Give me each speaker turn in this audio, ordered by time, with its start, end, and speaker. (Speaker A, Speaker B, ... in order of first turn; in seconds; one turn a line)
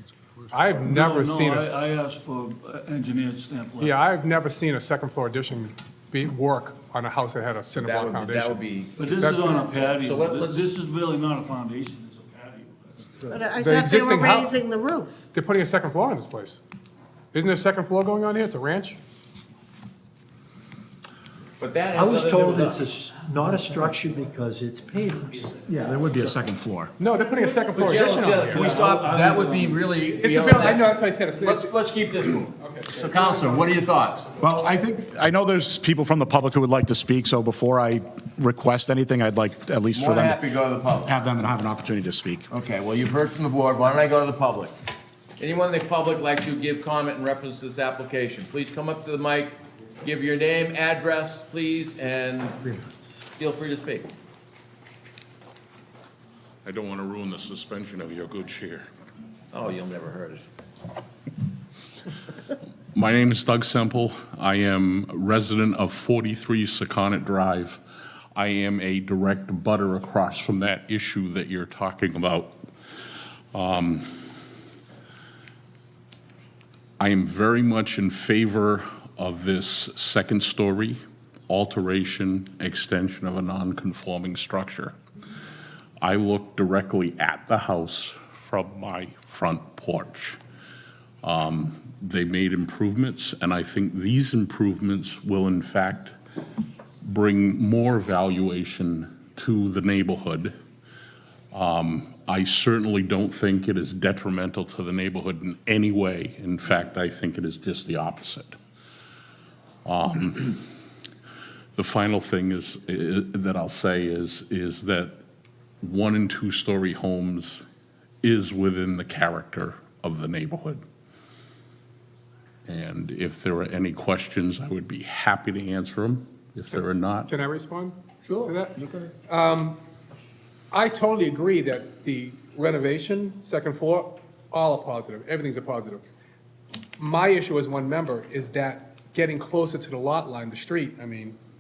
Speaker A: 0.5-2.0
Speaker B: 0.8-4.0
Speaker A: 3.8-9.6
Speaker C: 7.8-10.6
Speaker B: 8.9-13.2
Speaker A: 13.2-14.6
Speaker D: 13.3-15.3
Speaker A: 15.3-16.6
Speaker A: 17.3-19.0
Speaker C: 21.6-22.9
Speaker E: 21.9-26.1
Speaker F: 25.7-26.9
Speaker A: 27.0-28.8
Speaker D: 27.1-28.1
Speaker C: 27.7-34.3
Speaker B: 28.4-29.9
Speaker A: 30.1-32.0
Speaker A: 32.6-34.7
Speaker F: 34.4-40.4
Speaker C: 39.9-41.1
Speaker F: 41.0-42.5
Speaker C: 42.5-44.7
Speaker C: 45.4-52.7
Speaker E: 52.7-53.1
Speaker C: 53.4-54.1
Speaker G: 56.6-58.9
Speaker C: 59.5-60.5
Speaker G: 62.9-67.8
Speaker G: 68.3-72.6
Speaker G: 73.5-74.0
Speaker G: 77.0-84.9
Speaker G: 86.0-90.4
Speaker G: 91.2-96.1
Speaker G: 97.0-100.5
Speaker G: 101.5-108.6
Speaker G: 109.8-110.6
Speaker G: 111.8-115.2
Speaker G: 115.8-117.6
Speaker G: 118.2-120.8
Speaker G: 122.7-127.3
Speaker A: 127.3-128.7
Speaker C: 128.2-129.1
Speaker A: 129.3-129.8
Speaker A: 130.7-136.1
Speaker A: 137.0-141.4